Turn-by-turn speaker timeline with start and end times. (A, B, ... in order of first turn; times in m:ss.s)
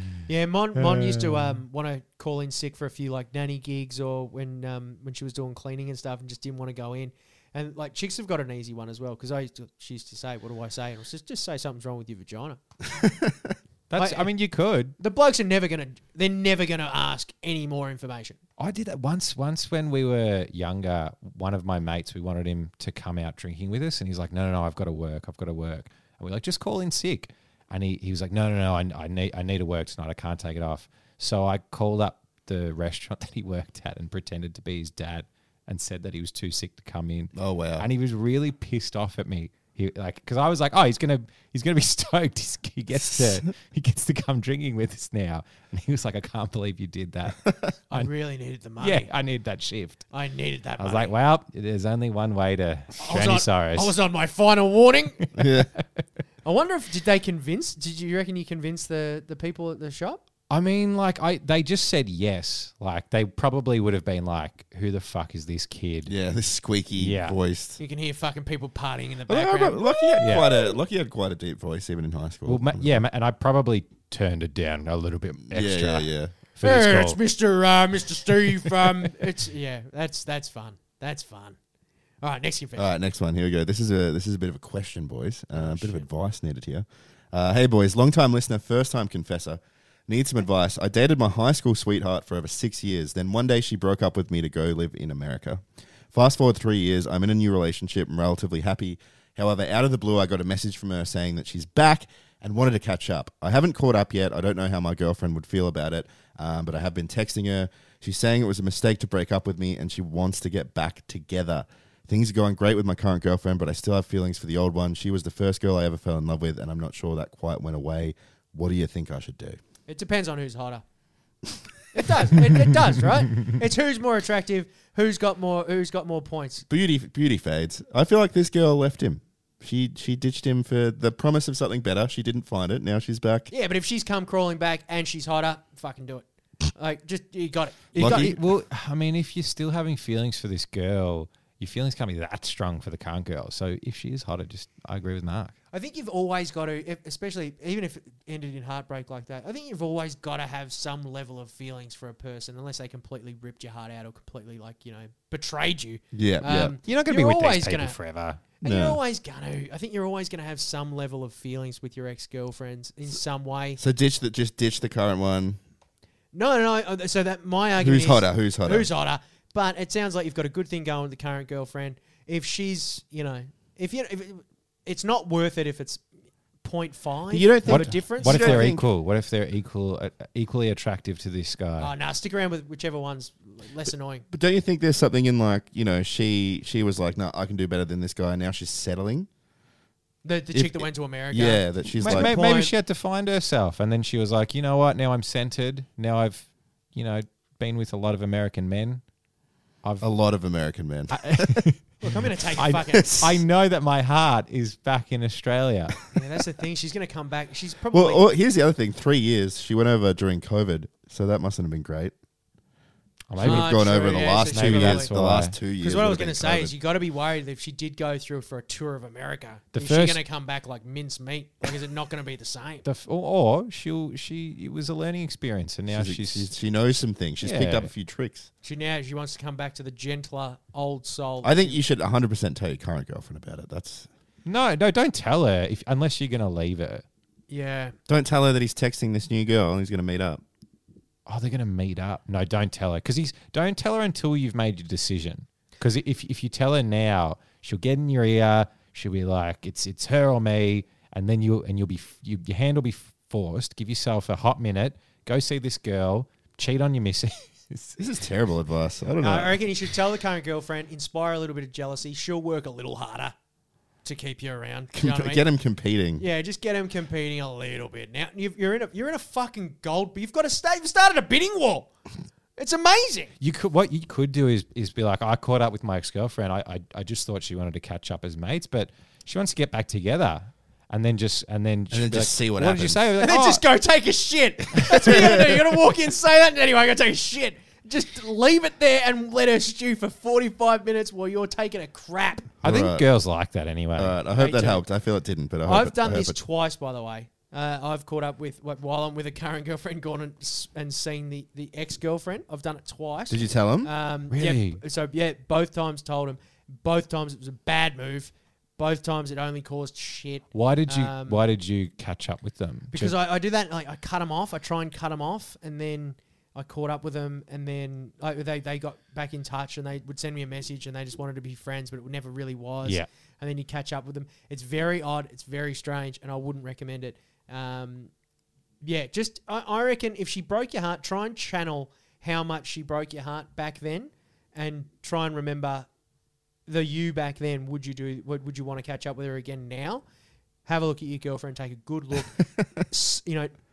0:00.3-0:12.6 A
0:00.8-0:01.6 B
0:13.0-0:13.5 C
0:13.9-0:15.0 B
0:14.0-0:14.3 A
0:15.0-0:18.4 A
0:18.6-0:48.1 B
0:37.4-0:37.9 C
0:43.1-0:43.4 C
0:47.9-0:49.1 A
0:48.8-0:50.0 B
0:50.1-0:51.1 A
0:50.8-0:54.0 B
0:53.0-0:55.3 A
0:55.4-0:55.7 C
0:56.4-1:00.2 A
1:00.5-1:06.1 B
1:06.1-1:07.8 C
1:07.0-1:07.4 B
1:07.8-1:10.2 A
1:09.3-1:13.0 C
1:10.2-1:10.5 B
1:12.5-1:17.2 B
1:15.5-1:16.4 C
1:16.6-1:21.6 A
1:22.2-1:22.9 A
1:22.8-1:59.6 C
1:25.6-1:26.1 A
1:59.9-2:00.8 A
2:01.9-2:06.6 A
2:06.7-2:13.5 C
2:13.5-2:18.4 A
2:18.0-2:18.4 C
2:18.0-2:25.6 B
2:25.7-2:38.0 A
2:36.1-2:36.8 C
2:36.8-2:38.4 B
2:38.6-2:43.8 A
2:38.6-2:39.0 C
2:43.8-2:45.6 C
2:46.3-2:56.0 A
2:47.8-2:48.9 C
2:56.6-2:58.8 A
2:57.3-2:58.9 C
2:57.7-3:01.9 B
3:01.8-3:04.3 A
3:04.3-3:09.3 C
3:10.2-3:12.7 A
3:10.5-3:12.3 C
3:12.0-3:19.0 B
3:20.0-3:21.7 C
3:21.1-3:22.0 B
3:22.0-3:23.2 A
3:22.6-3:26.0 B
3:22.9-3:23.4 C
3:26.1-3:28.3 A
3:27.9-3:32.1 C
3:33.3-3:33.9 B
3:33.4-3:35.2 A
3:33.4-3:36.7 C
3:34.4-3:35.6 B
3:35.8-3:42.8 A
3:39.7-3:40.2 B
3:42.8-3:46.5 B
3:45.9-3:48.5 C
3:47.4-3:47.9 B
3:48.6-3:51.8 A
3:51.4-3:54.1 C
3:54.5-3:57.0 B
3:57.5-3:58.0 A
3:58.1-4:00.4 C
4:01.3-4:18.0 B
4:18.0-4:19.6 C
4:19.2-4:23.3 A
4:24.0-4:25.4 A
4:24.9-4:26.2 C
4:26.2-4:31.9 A
4:32.6-4:33.3 A
4:33.4-4:43.6 B
4:41.9-4:43.2 C
4:43.2-4:52.5 A
4:44.8-4:45.6 C
4:52.6-4:53.1 C
4:52.6-4:54.2 B
4:54.0-4:56.4 C
4:54.4-4:54.8 A
4:55.6-5:11.4 A
5:03.3-5:03.9 C
5:04.3-5:04.8 B
5:10.5-5:13.2 B
5:12.9-5:28.1 A
5:28.8-5:35.9 A
5:36.7-5:40.0 A
5:40.7-5:43.5 A